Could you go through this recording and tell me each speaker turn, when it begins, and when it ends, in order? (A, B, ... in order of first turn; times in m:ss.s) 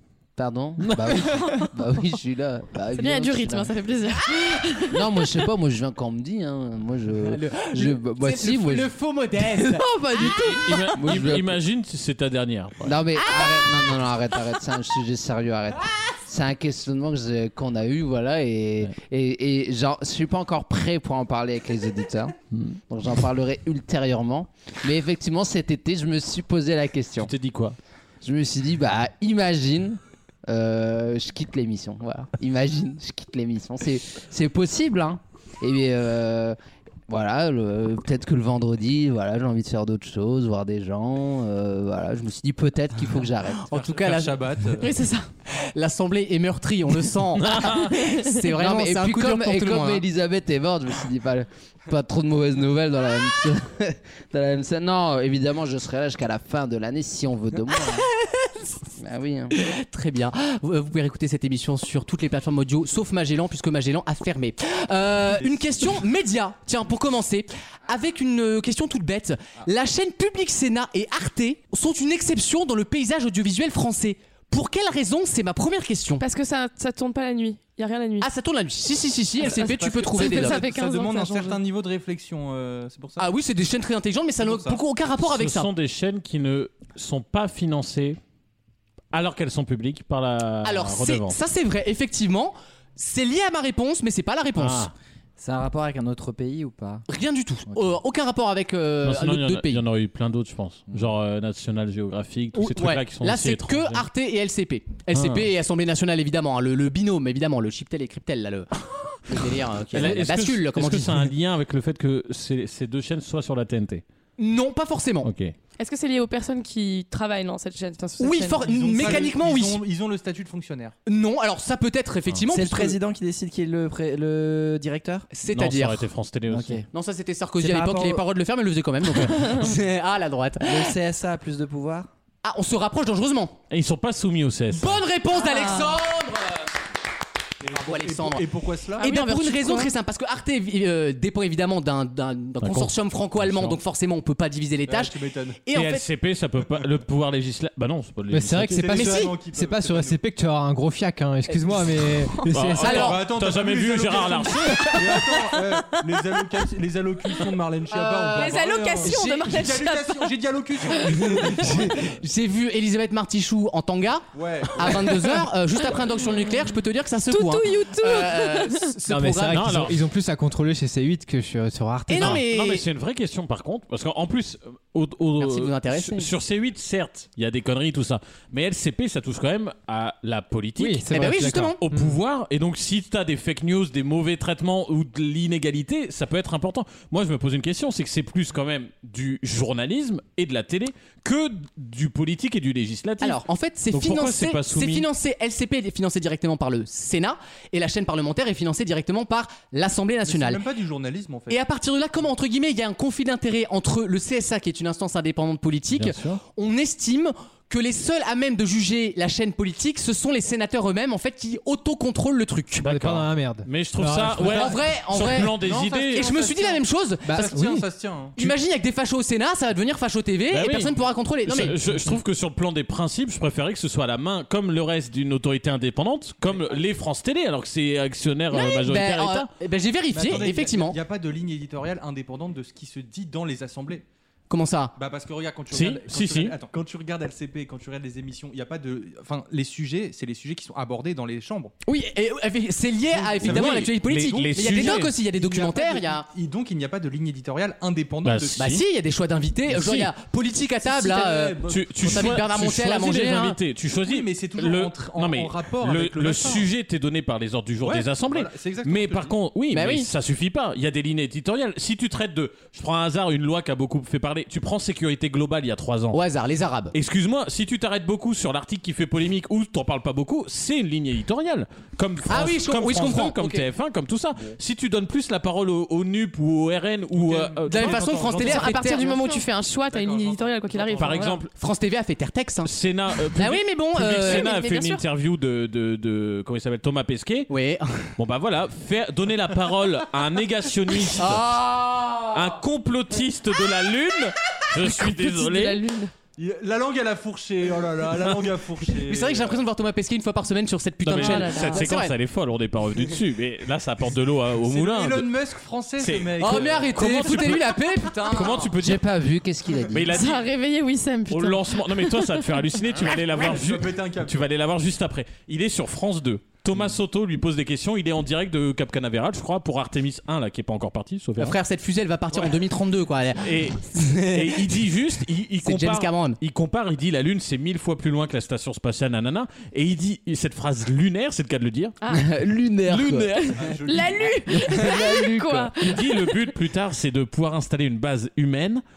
0:00.4-0:03.7 A
0:00.8-0:01.4 B
0:02.9-0:05.0 C
0:04.8-0:11.6 A
0:07.2-0:09.8 D
0:10.2-0:13.0 B
0:12.8-0:22.4 A
0:22.5-0:22.8 B
0:22.9-0:27.3 A
0:27.2-0:27.8 B
0:28.2-0:36.6 A
0:37.1-0:43.7 A
0:43.6-0:44.5 D
0:43.7-0:44.9 E
0:44.8-0:45.3 C
0:45.4-0:50.0 D
0:47.4-0:47.9 B
0:48.5-0:58.1 A
0:59.0-0:59.5 A
0:59.5-1:16.2 D
1:05.4-1:05.9 E
1:16.2-1:18.3 C
1:18.2-1:20.6 D
1:19.4-1:21.6 C
1:19.4-1:23.3 E
1:23.2-1:25.7 D
1:24.4-1:24.8 E
1:25.2-1:28.2 B
1:29.1-1:31.4 B
1:30.6-1:34.9 D
1:34.6-1:34.9 B
1:35.4-1:37.0 F
1:37.1-1:39.8 D
1:37.7-1:37.9 F
1:39.0-1:44.1 B
1:42.5-1:48.7 D
1:45.1-1:45.4 B
1:49.3-1:51.3 D
1:49.9-1:54.0 B
1:54.4-1:55.3 D
1:55.2-1:55.5 B
1:55.8-1:59.2 C
1:58.2-1:59.8 D
1:58.6-2:00.9 E
2:01.0-2:03.0 D
2:02.5-2:05.3 F
2:05.3-2:06.0 D
2:05.5-2:06.8 B
2:06.5-2:06.8 F
2:06.9-2:10.9 D
2:07.6-2:08.2 F
2:10.6-2:12.1 F
2:12.4-2:13.6 D
2:13.7-2:15.0 B
2:14.8-2:16.6 D
2:15.3-2:16.0 C
2:17.6-2:19.1 E
2:17.7-2:18.4 D
2:18.9-2:19.9 C
2:19.0-2:26.0 D
2:22.6-2:23.8 B
2:24.9-2:25.6 E
2:25.7-2:29.1 B
2:28.3-2:33.1 G
2:28.8-2:30.2 E
2:28.9-2:29.3 D
2:32.5-2:35.0 B
2:32.8-2:42.1 E
2:32.8-2:33.2 D
2:37.9-2:40.4 C
2:38.1-2:39.8 D
2:41.0-2:41.2 C
2:41.1-2:49.7 D
2:44.3-2:45.1 E
2:47.3-2:48.9 C
2:49.1-2:52.4 G
2:49.5-2:50.0 B
2:52.1-2:52.8 D
2:52.2-3:01.0 B
2:55.4-2:56.3 D
3:00.8-3:02.2 G
3:01.1-3:01.8 D
3:01.8-3:15.1 B
3:13.2-3:20.6 D
3:20.2-3:21.6 E
3:21.5-3:32.8 D
3:25.9-3:26.4 B
3:32.8-3:36.4 B
3:32.8-3:34.8 G
3:34.4-3:37.6 D
3:35.5-3:36.5 E
3:37.2-3:37.8 G
3:37.3-3:38.4 E
3:38.4-3:41.8 D
3:40.5-3:49.5 B
3:48.5-3:51.0 D
3:50.1-3:54.0 E
3:54.5-3:54.9 D
3:55.0-4:01.7 E
3:55.7-3:56.6 B
4:01.8-4:06.3 D
4:03.1-4:04.8 E
4:03.4-4:05.1 B
4:05.4-4:08.8 E
4:08.2-4:08.8 B
4:08.6-4:13.6 D
4:09.7-4:10.1 B
4:10.8-4:12.4 E
4:11.7-4:26.2 B
4:14.0-4:16.7 E
4:17.8-4:19.3 E
4:19.7-4:20.1 D
4:26.1-4:26.9 D
4:26.9-4:38.7 B
4:32.3-4:33.6 D
4:37.1-4:41.4 E
4:37.7-4:39.4 D
4:38.3-4:41.4 C
4:40.9-4:41.5 B
4:41.5-4:42.7 D
4:42.6-4:47.5 B
4:43.3-4:44.5 D
4:44.2-4:45.0 C
4:47.5-4:48.1 D
4:48.2-4:51.4 B
4:51.2-4:52.5 D
4:52.3-4:55.8 B
4:54.8-4:56.1 C
4:56.4-4:59.6 E
4:59.0-5:02.1 D
5:01.0-5:05.3 B
5:01.1-5:01.9 C
5:04.6-5:07.1 E
5:06.0-5:09.0 B
5:06.4-5:08.7 D
5:08.8-5:10.2 A
5:09.9-5:10.4 B
5:10.1-5:12.4 C
5:11.3-5:21.6 B
5:13.3-5:14.4 E
5:21.4-5:24.7 D
5:23.4-5:31.9 B
5:25.6-5:26.4 D
5:32.0-5:32.3 C
5:32.1-5:33.3 A
5:32.9-5:33.6 B
5:33.3-5:36.4 C
5:33.6-5:34.6 E
5:34.5-5:35.7 A
5:35.8-5:38.8 B